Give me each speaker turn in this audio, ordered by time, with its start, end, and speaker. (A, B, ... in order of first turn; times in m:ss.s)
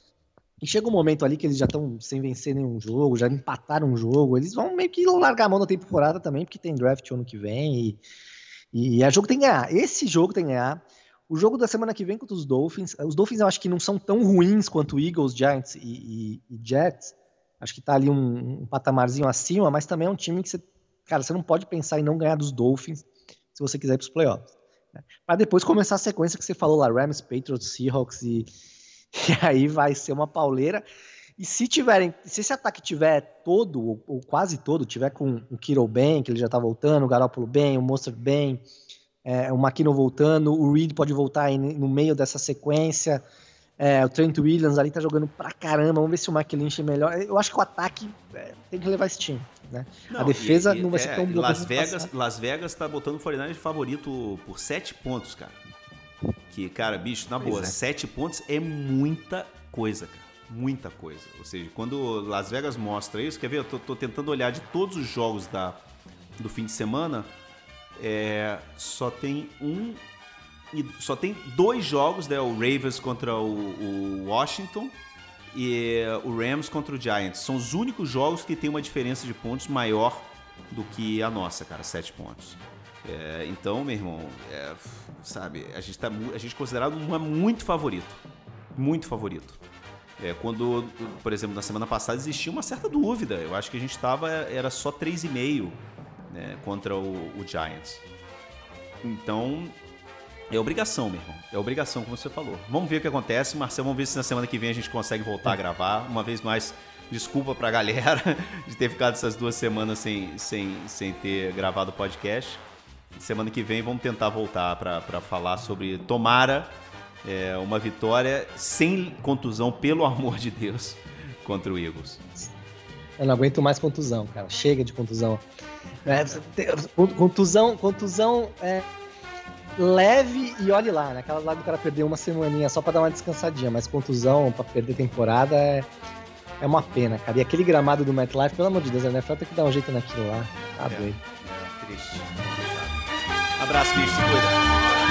0:00.6-0:08.0 A
0:08.7-0:28.5 A
0:29.1-0:30.8 A
0:31.4-0:38.6 A
0:39.2-0:43.2 A
0:43.8-0:52.1 A
0:50.1-0:55.6 B
0:56.5-1:05.8 B
0:57.4-0:57.7 A
1:06.4-1:07.3 B
1:08.0-1:10.0 B
1:10.7-1:15.0 B
1:15.5-1:28.2 B
1:28.7-1:29.6 B
1:30.2-1:38.0 B
1:39.0-1:39.8 B
1:40.5-1:52.6 B
1:53.2-2:02.2 B
2:03.2-2:05.4 A
2:06.0-2:08.8 A
2:06.0-2:06.4 B
2:09.8-2:15.9 A
2:16.6-2:21.2 A
2:20.8-2:24.6 B